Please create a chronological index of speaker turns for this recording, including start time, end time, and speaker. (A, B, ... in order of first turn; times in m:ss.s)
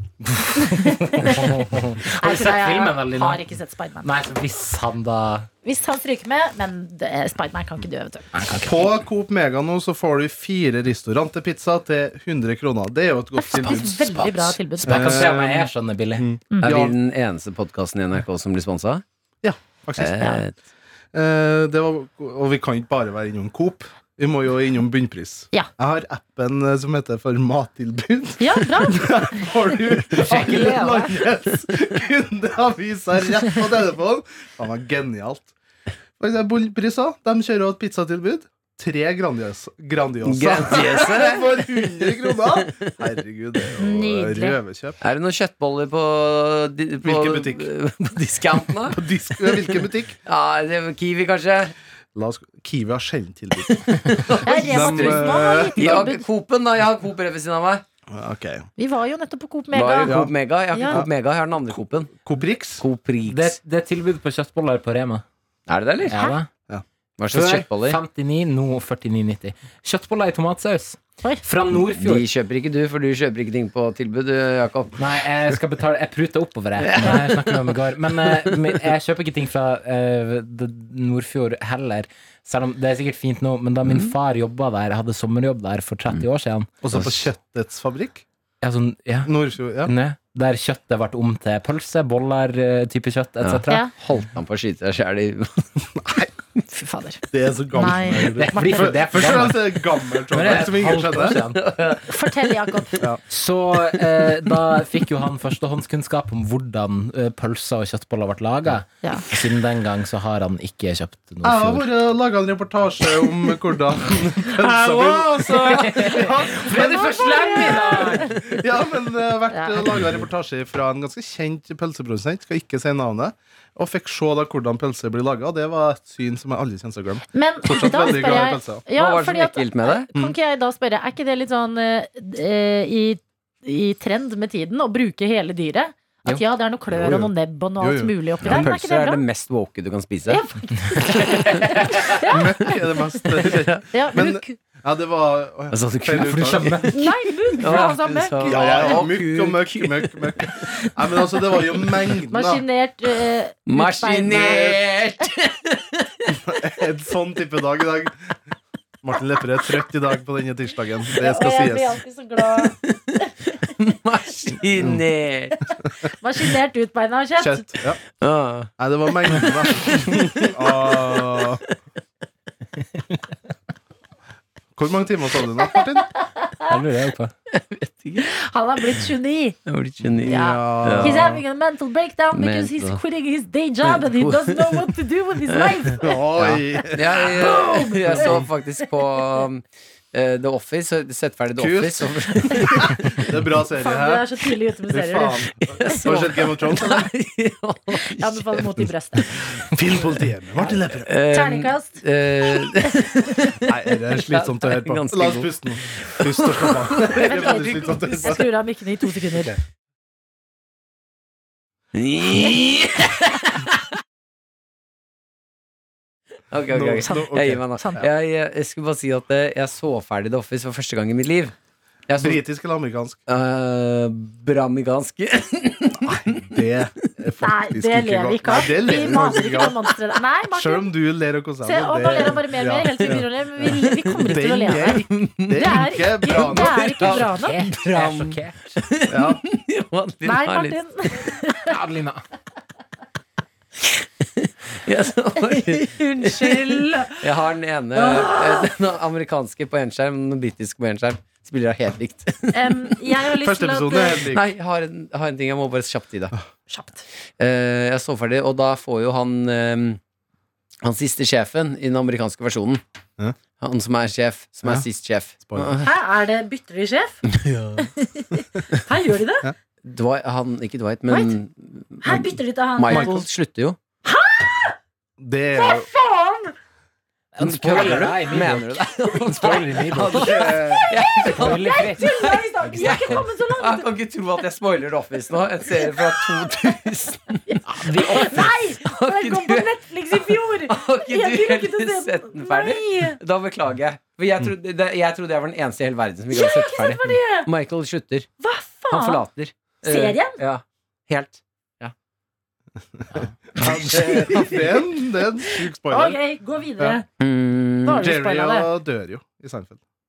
0:00.5-0:03.4 A
0:00.6-0:01.6 B
0:02.1-0:04.1 B
0:04.0-0:05.5 A
0:05.6-0:08.3 B
0:08.3-0:08.8 A
0:08.6-0:16.9 C
0:13.4-0:15.1 B
0:14.8-0:16.2 A
0:16.6-0:19.0 D
0:19.4-0:20.4 C
0:20.0-0:20.5 D
0:21.1-0:35.5 C
0:28.4-0:29.5 B
0:30.2-0:31.2 A
0:36.2-0:45.0 C
0:40.2-0:42.7 D
0:43.8-0:44.6 B
0:45.0-0:51.7 D
0:47.0-0:47.7 C
0:48.9-0:50.2 C
0:52.1-0:53.8 C
0:54.3-0:55.2 D
0:54.3-0:55.8 C
0:54.4-0:56.2 B
0:55.8-0:57.8 D
0:58.1-0:58.6 C
0:58.8-1:00.2 B
0:59.7-1:02.1 D
1:00.0-1:01.1 C
1:00.7-1:01.0 B
1:02.1-1:02.8 C
1:02.8-1:03.6 D
1:03.2-1:05.2 A
1:05.7-1:06.2 D
1:06.1-1:06.5 A
1:07.2-1:08.0 D
1:07.3-1:12.2 A
1:11.9-1:15.0 D
1:15.0-1:27.1 A
1:16.8-1:18.8 D
1:23.8-1:24.1 D
1:26.8-1:28.2 C
1:28.6-1:33.9 A
1:29.2-1:29.9 C
1:33.4-1:35.7 D
1:36.0-1:36.3 C
1:36.7-1:39.0 B
1:37.3-1:41.4 C
1:38.4-1:41.6 A
1:41.5-1:43.0 D
1:42.1-1:42.9 B
1:43.3-1:51.8 A
1:51.4-2:08.8 C
1:54.6-1:58.4 A
1:55.4-1:55.8 D
1:57.2-1:58.2 B
1:59.5-1:59.8 B
2:07.3-2:19.2 B
2:08.9-2:10.1 D
2:16.9-2:18.7 C
2:18.4-2:20.4 D
2:20.3-2:22.7 B
2:21.4-2:21.7 D
2:22.3-2:26.8 C
2:23.5-2:23.8 D
2:23.9-2:24.6 B
2:25.7-2:27.0 D
2:26.2-2:28.0 A
2:26.9-2:29.0 B
2:27.6-2:30.9 D
2:28.5-2:32.6 C
2:32.3-2:34.8 B
2:33.7-2:36.3 D
2:34.3-2:34.9 C
2:36.3-2:38.4 C
2:39.0-2:42.0 C
2:41.2-2:43.3 B
2:43.5-2:45.5 D
2:44.8-2:45.0 C
2:45.5-2:47.7 B
2:47.4-2:48.0 C
2:48.2-2:48.7 D
2:48.8-2:51.6 C
2:49.3-2:50.2 D
2:54.7-2:56.1 C
2:55.7-2:56.7 B
2:56.7-2:57.3 A
2:56.7-2:58.3 D
2:58.2-2:59.6 B
2:59.6-3:01.4 D
3:00.0-3:01.4 C
3:00.2-3:06.2 B
3:02.3-3:03.0 D
3:03.8-3:04.9 D
3:05.5-3:13.2 D
3:06.0-3:07.5 C
3:07.1-3:08.4 B
3:08.1-3:08.4 C
3:11.6-3:14.2 C
3:13.8-3:16.0 B
3:14.9-3:17.1 C
3:15.8-3:19.4 D
3:18.1-3:19.3 B
3:19.6-3:21.1 C
3:20.7-3:23.7 D
3:21.3-3:23.6 B
3:23.7-3:28.4 C
3:24.3-3:28.4 D
3:27.1-3:29.5 B
3:31.9-3:33.7 D
3:36.5-3:41.5 D
3:36.7-3:38.1 C
3:37.0-3:38.1 B
3:42.1-3:42.4 D
3:42.2-3:43.2 C
3:43.3-3:46.2 D
3:46.0-3:49.8 C
3:47.4-3:50.9 B
3:48.5-3:49.7 D
3:50.5-3:53.2 C
3:51.6-3:57.6 B
3:53.0-3:54.4 D
3:54.3-3:56.9 C
3:55.0-4:00.8 D
3:56.8-3:58.8 A
3:59.1-3:59.4 C
4:00.2-4:01.8 B
4:01.7-4:02.2 A
4:03.8-4:12.8 D
4:05.5-4:07.3 B
4:07.9-4:08.6 B
4:12.5-4:14.2 B
4:13.4-4:14.5 C
4:14.3-4:16.3 D
4:16.7-4:17.0 B
4:17.4-4:20.0 D
4:20.8-4:22.8 D
4:23.6-4:25.9 D
4:25.4-4:25.8 C
4:25.8-4:27.2 B
4:27.3-4:27.7 D
4:28.0-4:29.5 B
4:29.8-4:33.8 D
4:31.1-4:31.3 B
4:32.0-4:33.2 B
4:32.9-4:33.2 C
4:34.0-4:34.8 B
4:35.2-4:35.9 C
4:35.5-4:36.5 B
4:37.3-4:40.7 A
4:37.4-4:58.3 D
4:39.9-4:40.7 C
4:40.6-4:43.9 B
4:41.3-4:42.0 A
4:42.8-4:43.2 A
4:45.7-4:46.3 B
4:47.5-4:53.2 B
4:47.7-4:48.3 A
4:56.3-4:57.5 B
4:58.4-4:59.2 B
4:58.9-5:01.9 D
4:59.8-5:00.4 B
5:03.1-5:04.6 D
5:03.6-5:06.2 C
5:04.1-5:04.4 B
5:05.9-5:07.0 B
5:07.2-5:08.0 D
5:07.8-5:08.7 B
5:07.9-5:09.8 C